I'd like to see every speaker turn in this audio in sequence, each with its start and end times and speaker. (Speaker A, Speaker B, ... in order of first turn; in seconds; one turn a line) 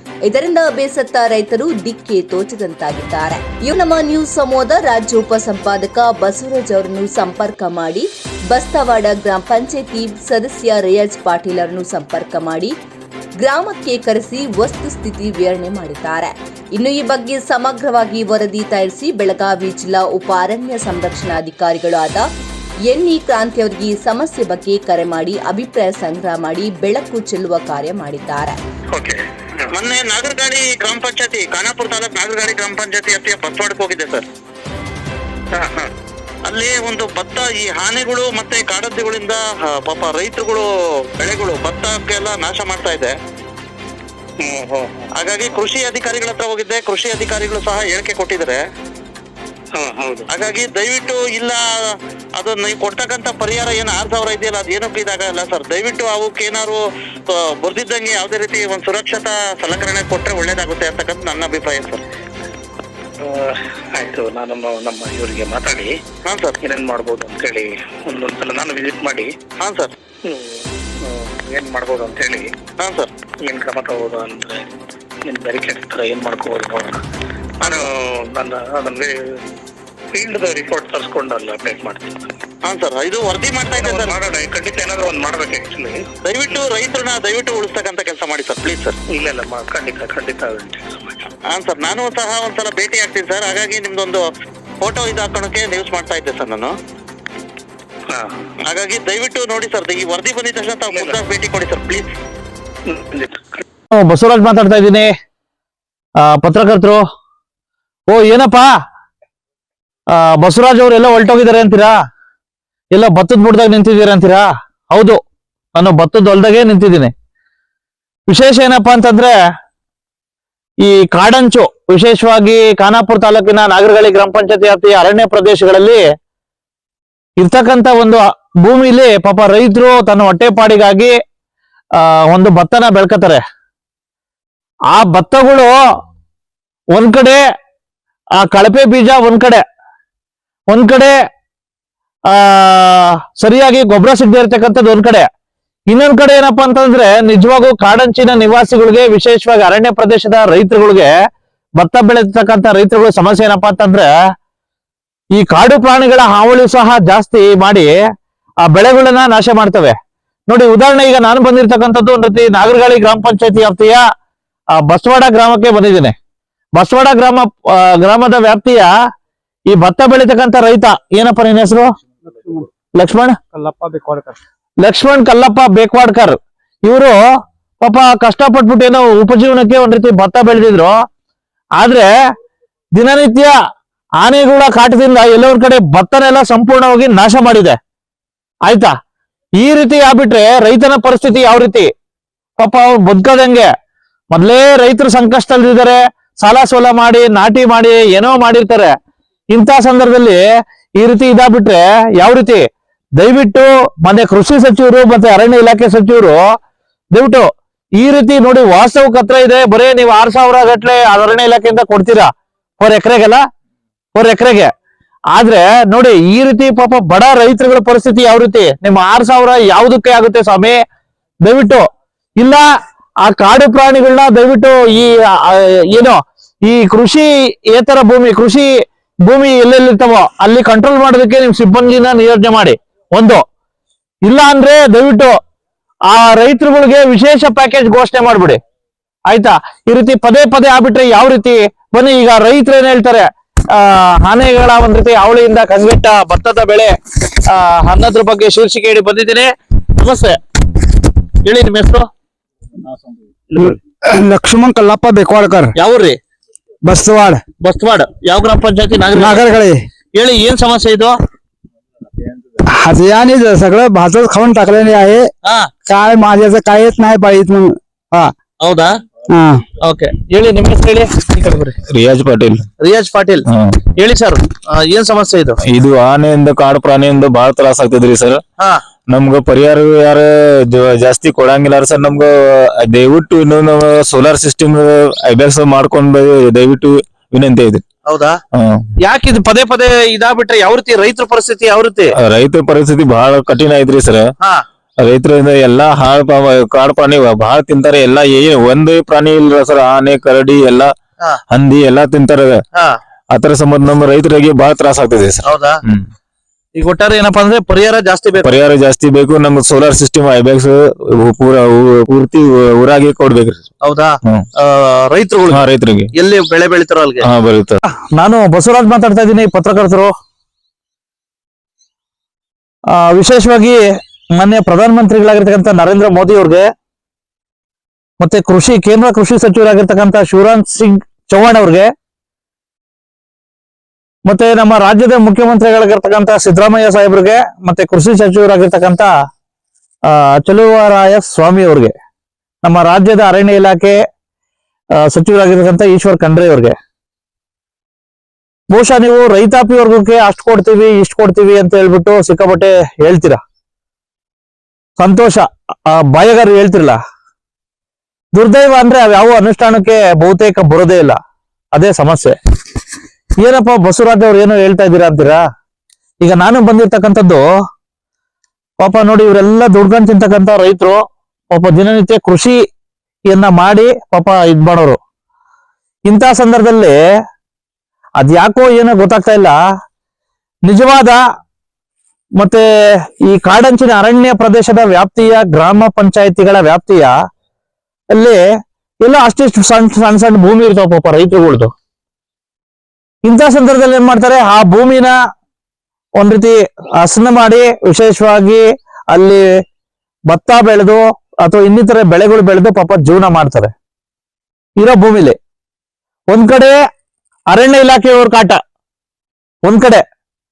Speaker A: 0.2-12.7
Speaker A: 13.4-22.2
Speaker A: 22.9-28.6
Speaker B: 29.7-34.2
Speaker C: 35.5-35.8
Speaker B: 36.5-40.6
Speaker B: 41.2-43.1
Speaker C: 44.4-45.0
Speaker B: 45.2-48.6
Speaker C: 49.8-50.3
Speaker B: 50.3-51.6
Speaker B: 52.4-56.8
Speaker B: 57.3-62.0
Speaker C: 63.2-65.9
Speaker B: 66.2-66.6
Speaker C: 66.6-69.3
Speaker B: 69.6-69.9
Speaker C: 70.3-72.5
Speaker B: 72.8-73.1
Speaker C: 73.4-74.7
Speaker C: 75.2-77.0
Speaker C: 77.6-79.2
Speaker C: 80.1-82.3
Speaker B: 82.7-84.1
Speaker C: 83.8-86.6
Speaker B: 86.2-89.0
Speaker C: 89.1-91.3
Speaker B: 91.5-94.2
Speaker B: 94.8-96.7
Speaker B: 98.7-102.0
Speaker C: 100.9-101.2
Speaker C: 102.9-103.6
Speaker D: 103.9-105.1
Speaker D: 106.2-107.0
Speaker D: 108.1-108.7
Speaker D: 110.1-111.9
Speaker D: 112.9-115.2
Speaker D: 115.8-117.1
Speaker D: 118.3-119.3
Speaker D: 120.8-126.0
Speaker D: 127.4-131.1
Speaker D: 132.0-133.4
Speaker D: 134.9-135.7
Speaker D: 136.9-137.4
Speaker D: 138.4-139.6
Speaker D: 140.7-141.2
Speaker D: 142.3-145.3
Speaker D: 145.9-151.1
Speaker D: 151.8-154.1
Speaker D: 155.3-157.9
Speaker D: 158.6-159.9
Speaker D: 160.5-164.0
Speaker D: 164.7-166.1
Speaker D: 166.8-168.9
Speaker D: 169.7-171.9
Speaker D: 173.0-173.4
Speaker E: 173.6-174.3
Speaker D: 174.8-177.2
Speaker D: 177.8-180.9
Speaker D: 181.8-182.1
Speaker D: 182.9-183.5
Speaker D: 184.2-187.8
Speaker D: 189.6-191.9
Speaker D: 192.6-193.7
Speaker D: 194.3-198.9
Speaker D: 199.5-200.4
Speaker D: 201.0-202.6
Speaker D: 203.2-206.4
Speaker D: 207.1-207.4
Speaker D: 208.0-212.3
Speaker D: 212.8-213.4
Speaker D: 214.1-214.7
Speaker D: 215.3-220.8
Speaker D: 221.4-221.8
Speaker D: 222.4-222.6
Speaker D: 223.2-228.7
Speaker D: 229.2-233.4
Speaker D: 234.2-235.3
Speaker D: 236.1-238.6
Speaker D: 239.3-250.4
Speaker D: 251.4-252.1
Speaker E: 253.6-255.7
Speaker D: 255.8-256.2
Speaker E: 256.8-257.4
Speaker D: 257.6-259.4
Speaker E: 259.1-259.8
Speaker D: 260.1-261.1
Speaker E: 262.7-265.3
Speaker E: 265.9-268.3
Speaker D: 268.6-268.9
Speaker E: 269.3-269.6
Speaker D: 269.8-271.7
Speaker F: 271.9-272.6
Speaker D: 272.8-273.4
Speaker F: 273.5-273.8
Speaker D: 273.9-275.6
Speaker F: 275.6-278.4
Speaker F: 279.1-287.8
Speaker D: 288.1-288.4
Speaker F: 288.5-288.8
Speaker D: 289.0-292.1
Speaker F: 292.2-294.3
Speaker F: 295.0-300.9
Speaker F: 301.5-302.6
Speaker F: 303.3-306.1
Speaker D: 305.4-305.8
Speaker D: 306.8-308.5
Speaker F: 308.4-313.7
Speaker D: 313.8-315.6
Speaker F: 315.5-316.1
Speaker D: 316.2-317.2
Speaker F: 317.2-317.8
Speaker D: 318.2-320.1
Speaker D: 322.9-323.8
Speaker D: 324.3-326.6
Speaker D: 328.2-331.9
Speaker D: 334.2-339.1
Speaker D: 340.1-341.9
Speaker D: 342.6-344.0
Speaker D: 345.0-346.7
Speaker D: 348.7-353.4
Speaker D: 355.0-357.0
Speaker D: 358.3-361.2
Speaker D: 361.7-362.4
Speaker D: 363.4-365.4
Speaker D: 366.2-367.4
Speaker D: 368.8-371.0
Speaker D: 371.5-372.6
Speaker D: 373.3-375.0
Speaker D: 376.1-376.9
Speaker D: 378.2-379.6
Speaker D: 380.7-381.2
Speaker D: 382.4-382.6
Speaker D: 383.2-387.1
Speaker D: 388.1-388.4
Speaker D: 389.0-391.7
Speaker D: 393.2-395.1
Speaker D: 396.2-399.4
Speaker D: 400.3-403.7
Speaker D: 404.8-405.4
Speaker D: 406.3-406.8
Speaker D: 407.5-408.6
Speaker D: 409.6-410.0